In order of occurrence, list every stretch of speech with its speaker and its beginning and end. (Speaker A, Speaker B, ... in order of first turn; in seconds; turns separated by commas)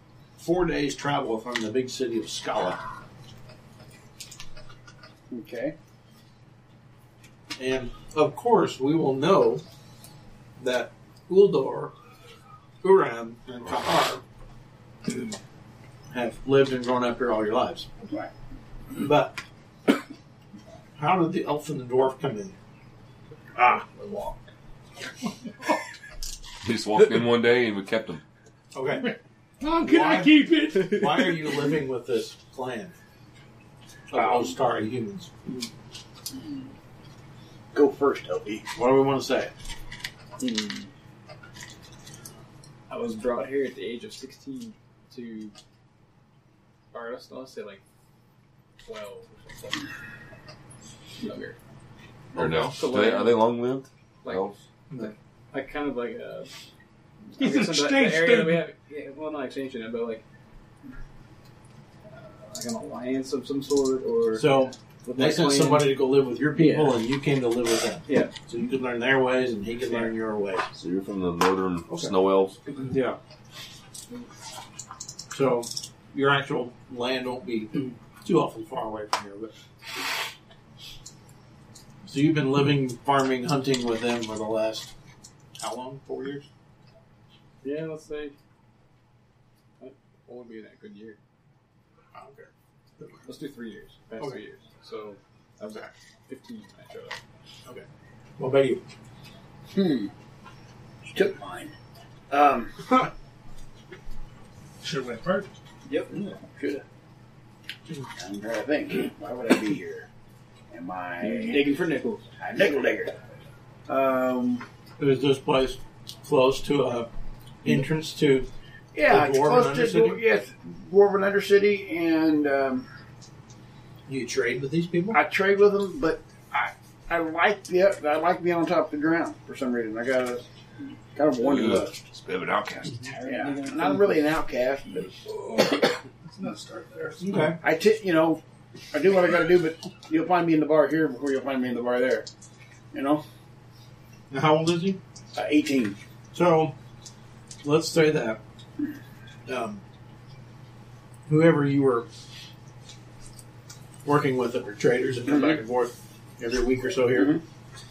Speaker A: 0.4-2.8, Speaker B: 5.3-5.8, Speaker A: 7.6-9.6, Speaker A: 10.6-11.9, Speaker A: 12.8-14.2, Speaker A: 16.1-17.9, Speaker A: 18.9-19.4, Speaker A: 21.0-22.6, Speaker A: 23.6-24.4, Speaker C: 26.6-28.2, Speaker A: 28.7-29.1, Speaker D: 29.0-31.5, Speaker A: 29.8-33.0, Speaker A: 34.1-35.3, Speaker B: 34.1-34.5, Speaker B: 36.3-36.6, Speaker B: 37.7-38.7, Speaker A: 38.8-39.5, Speaker E: 40.4-40.9, Speaker E: 42.9-45.5, Speaker E: 46.9-47.8, Speaker E: 48.8-49.9, Speaker E: 51.2-51.6, Speaker C: 52.3-54.6, Speaker E: 52.4-53.5, Speaker E: 54.2-56.5, Speaker E: 57.3-60.2, Speaker D: 57.4-58.7, Speaker E: 62.1-66.0, Speaker A: 64.3-70.7, Speaker E: 66.5-67.0, Speaker E: 68.1-68.3, Speaker C: 70.7-72.6, Speaker E: 72.7-73.1, Speaker A: 72.9-73.2, Speaker A: 75.3-79.5, Speaker A: 82.0-84.9, Speaker A: 85.6-86.5, Speaker E: 87.6-88.4, Speaker E: 89.8-91.2, Speaker A: 92.1-93.3, Speaker E: 93.3-97.2, Speaker A: 98.4-98.8, Speaker B: 99.7-100.1, Speaker B: 101.0-101.7, Speaker B: 102.3-103.0, Speaker D: 104.8-105.5, Speaker B: 105.9-106.8, Speaker B: 108.1-110.1, Speaker B: 110.7-113.2, Speaker E: 111.2-112.2, Speaker B: 113.9-114.7, Speaker A: 115.0-117.1, Speaker A: 117.6-118.5, Speaker B: 118.9-122.9, Speaker A: 119.1-120.2, Speaker A: 124.1-125.2, Speaker B: 125.1-132.0, Speaker C: 131.4-133.1, Speaker E: 133.1-134.1, Speaker B: 133.2-135.2, Speaker D: 135.2-137.5, Speaker A: 137.2-137.6, Speaker B: 137.6-142.3, Speaker B: 142.9-143.2, Speaker A: 144.3-145.0, Speaker B: 145.3-146.0, Speaker A: 146.3-146.7, Speaker A: 147.6-148.4, Speaker A: 149.5-149.8, Speaker A: 151.3-152.1, Speaker A: 154.1-157.4, Speaker B: 155.3-155.6, Speaker B: 157.1-157.4